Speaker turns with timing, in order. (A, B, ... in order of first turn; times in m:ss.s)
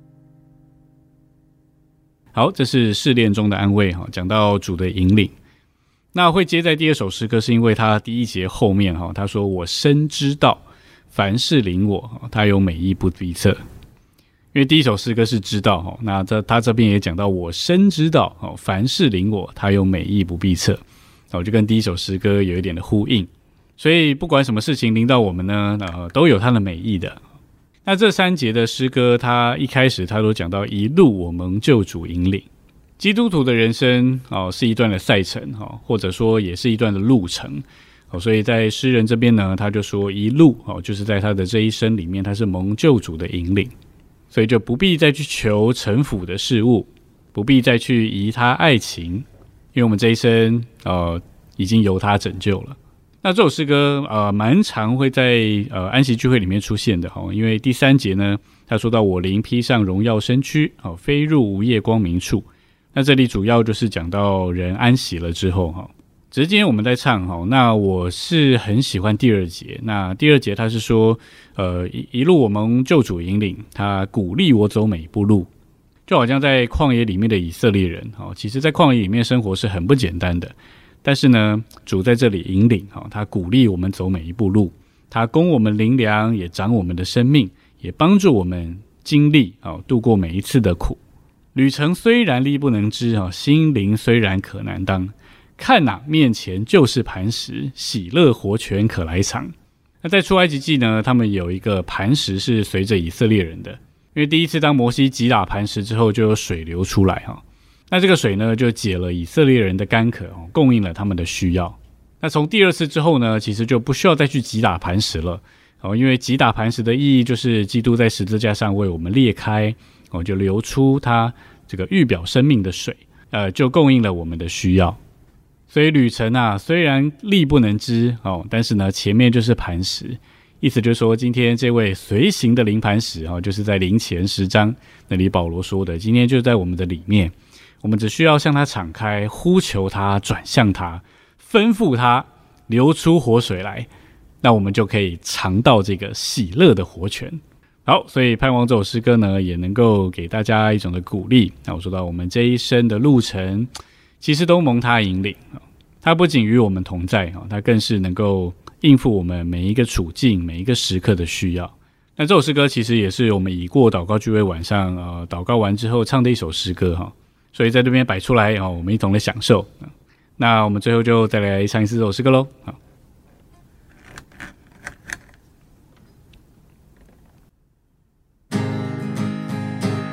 0:02.3-0:05.4 A
0:06.1-0:13.6 A
0:14.5-0:27.2 A
0:27.8-0:32.5 A
0:33.0-0:43.7 A
0:44.3-1:15.5 A
1:16.1-1:31.0 A
1:31.5-2:05.0 A
2:05.7-2:23.9 A
2:24.4-2:33.7 A
2:34.2-2:52.8 A